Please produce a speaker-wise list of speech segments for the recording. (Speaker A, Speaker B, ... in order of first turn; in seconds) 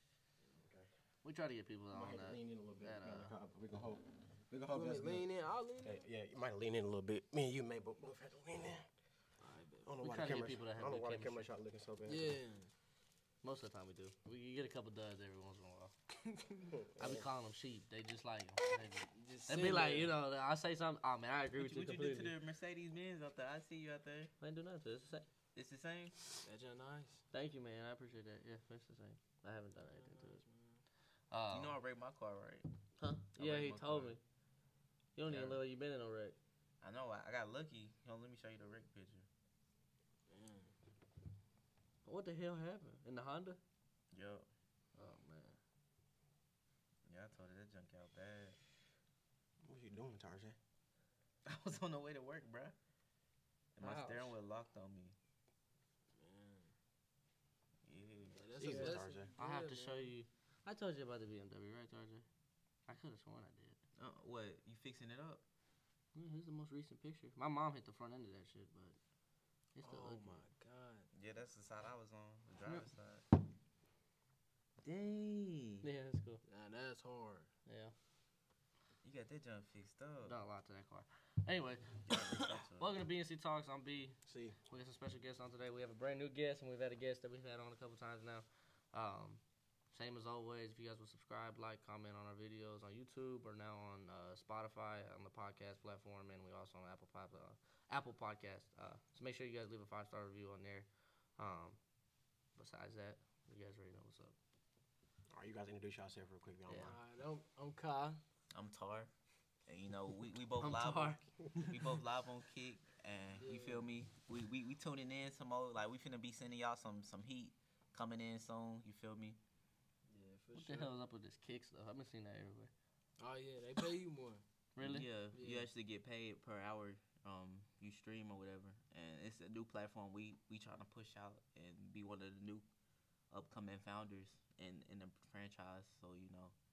Speaker A: 0.6-0.9, 1.9-5.2, 5.8-8.9, 9.8-12.3, 16.7-17.2, 49.6-50.6, 58.6-59.3, 84.3-84.5, 105.3-107.0
Speaker B: 1.2-3.3, 10.0-11.5, 13.4-15.9, 17.0-22.3, 24.4-25.3, 27.3-30.4, 31.3-31.8, 33.0-34.2, 35.1-36.4, 42.0-43.6, 45.0-45.6, 53.8-54.3, 58.7-62.2, 62.9-63.8, 66.1-69.0, 69.7-70.4, 75.8-76.4, 77.7-77.9, 80.2-84.2, 84.7-89.4, 89.9-101.8, 102.5-104.3, 106.7-107.0, 110.6-111.8, 120.5-122.7, 124.8-125.1
Speaker C: 4.7-6.0, 9.4-9.9, 12.1-12.7, 16.4-16.7, 19.0-20.1, 26.4-27.2, 29.8-30.8, 40.3-40.7, 56.2-56.7, 58.3-60.1, 69.8-71.1, 76.5-77.5, 106.8-108.2, 113.4-113.8, 120.1-120.9, 123.2-124.4, 125.3-125.7
Speaker D: 21.6-24.3, 25.5-26.1, 31.5-32.6, 33.4-34.1, 35.2-35.6, 36.8-39.3, 44.1-44.5, 47.1-48.6, 51.5-52.7, 53.8-55.1, 57.9-58.4, 64.0-65.4, 71.1-73.2, 74.8-75.9, 79.0-80.3, 82.1-82.9, 108.5-109.1, 109.7-119.4, 124.8-132.6, 133.3-136.5